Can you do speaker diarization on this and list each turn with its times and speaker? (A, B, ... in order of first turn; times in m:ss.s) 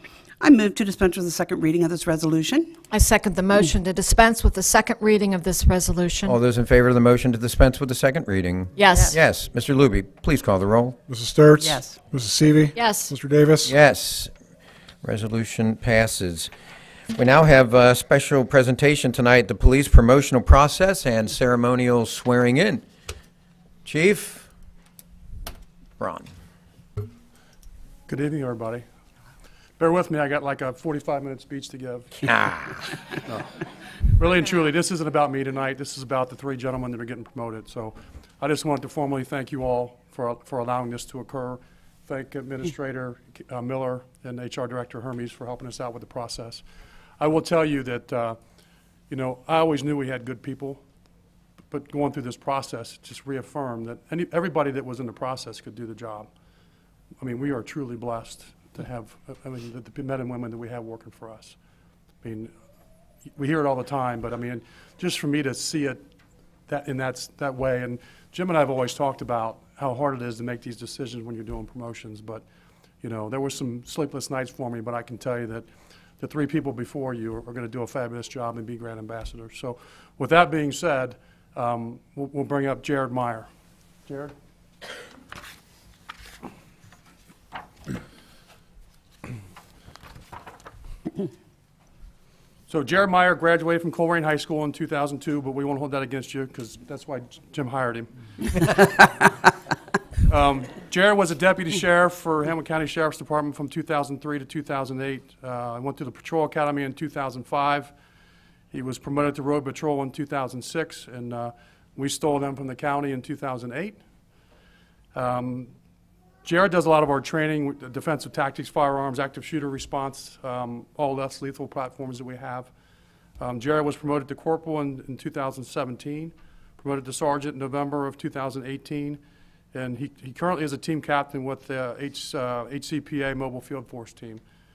0:00.4-0:02.8 A
0:02.9-0:06.4 B
0:06.2-0:11.0 C
0:08.8-0:09.2 B
0:11.1-0:13.8 D
0:11.6-0:12.0 A
0:12.7-0:13.1 B
0:13.6-0:14.3 C
0:15.0-0:16.5 C
0:17.1-0:22.8 C
0:23.8-0:24.5 C
0:26.0-0:26.3 C
0:28.1-0:28.8 E
0:29.8-0:32.3 E
0:34.1-0:46.6 E
0:47.2-0:48.4 E
0:49.1-0:50.8 E
0:51.7-0:56.3 E
0:57.2-1:01.6 E
1:02.2-1:02.5 E
1:03.3-1:06.0 E
1:06.7-1:12.4 E
1:13.0-1:15.7 E
1:16.2-1:23.5 E
1:24.0-1:24.3 E
1:32.7-1:38.1 E
1:40.3-1:47.9 E
1:48.7-1:54.0 E
1:55.1-1:55.7 E
1:56.4-2:02.7 E
2:03.4-2:09.2 E
2:09.7-2:14.4 E